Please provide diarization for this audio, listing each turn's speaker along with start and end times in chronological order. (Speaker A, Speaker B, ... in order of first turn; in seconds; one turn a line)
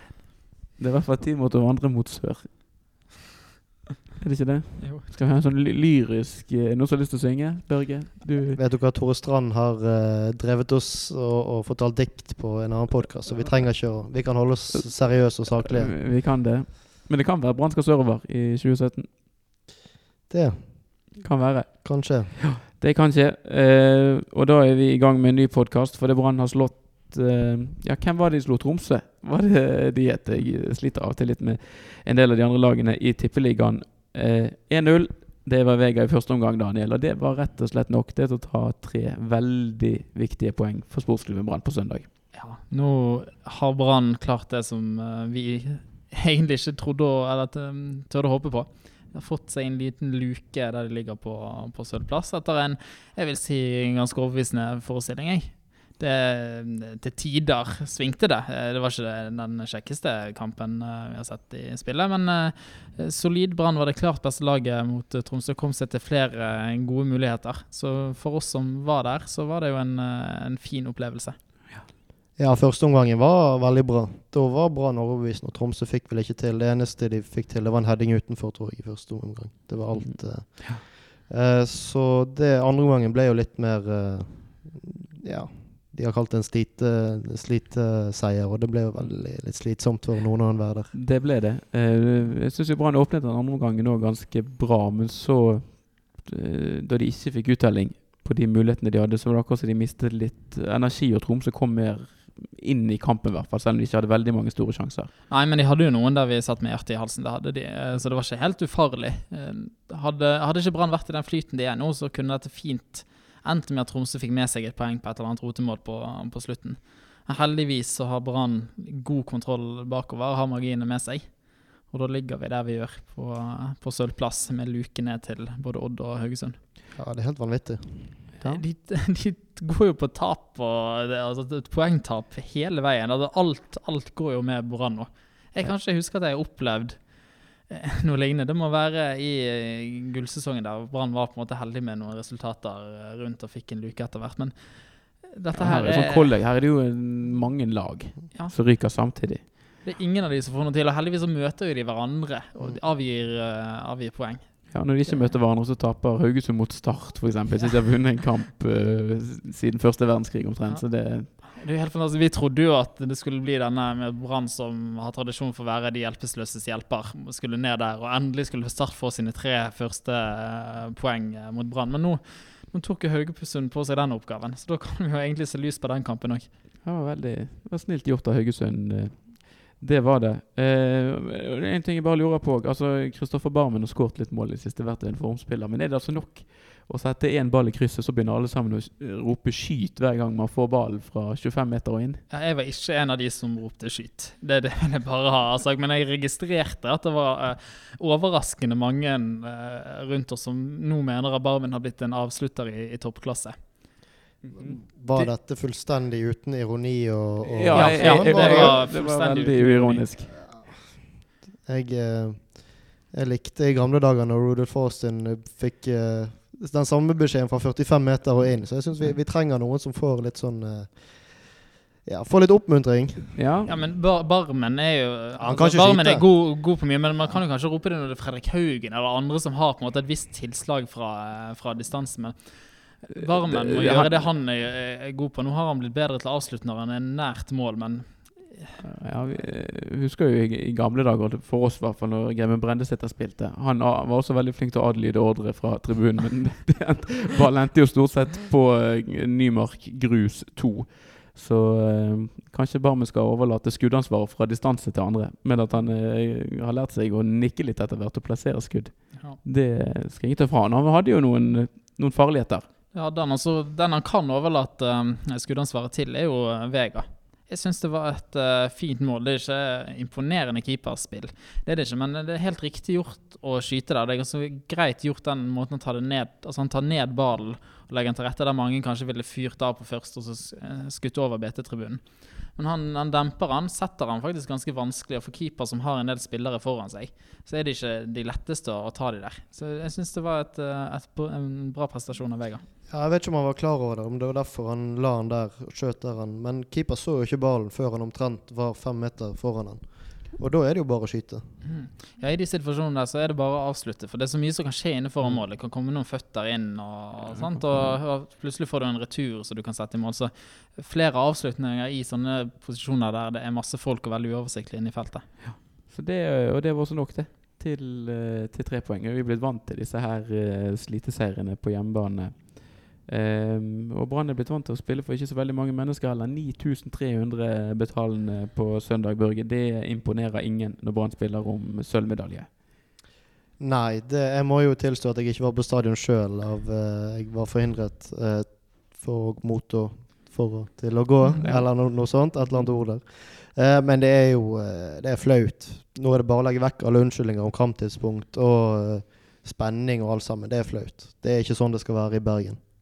Speaker A: 0.8-2.9
Speaker A: 4.2-8.6
Speaker B: 4.8-5.1
Speaker C: 8.6-16.0
Speaker A: 15.5-19.2
Speaker C: 20.3-21.1
Speaker A: 21.1-42.1
Speaker C: 21.8-22.4
Speaker B: 42.3-71.4
Speaker C: 72.4-90.9
Speaker A: 80.0-80.8
Speaker A: 90.9-105.1
Speaker B: 105.3-126.6
Speaker C: 127.0-128.3
Speaker B: 128.4-146.4
Speaker A: 145.5-149.5
Speaker B: 149.8-155.3
Speaker A: 154.7-161.4
Speaker B: 160.7-176.5
Speaker A: 176.8-192.2
Speaker B: 192.3-204.0
Speaker A: 204.4-204.8
Speaker C: 204.6-208.9
Speaker A: 207.4-210.3
Speaker B: 207.7-210.1
Speaker C: 210.3-223.4
Speaker A: 223.3-223.8
Speaker B: 223.7-239.4
Speaker C: 225.4-226.4
Speaker A: 233.1-234.3
Speaker A: 238.8-262.7
Speaker B: 262.9-292.7
Speaker C: 292.9-301.6
Speaker B: 301.6-315.4
Speaker A: 307.3-308.0
Speaker A: 315.4-332.6
Speaker C: 333.6-352.6
Speaker A: 341.4-342.7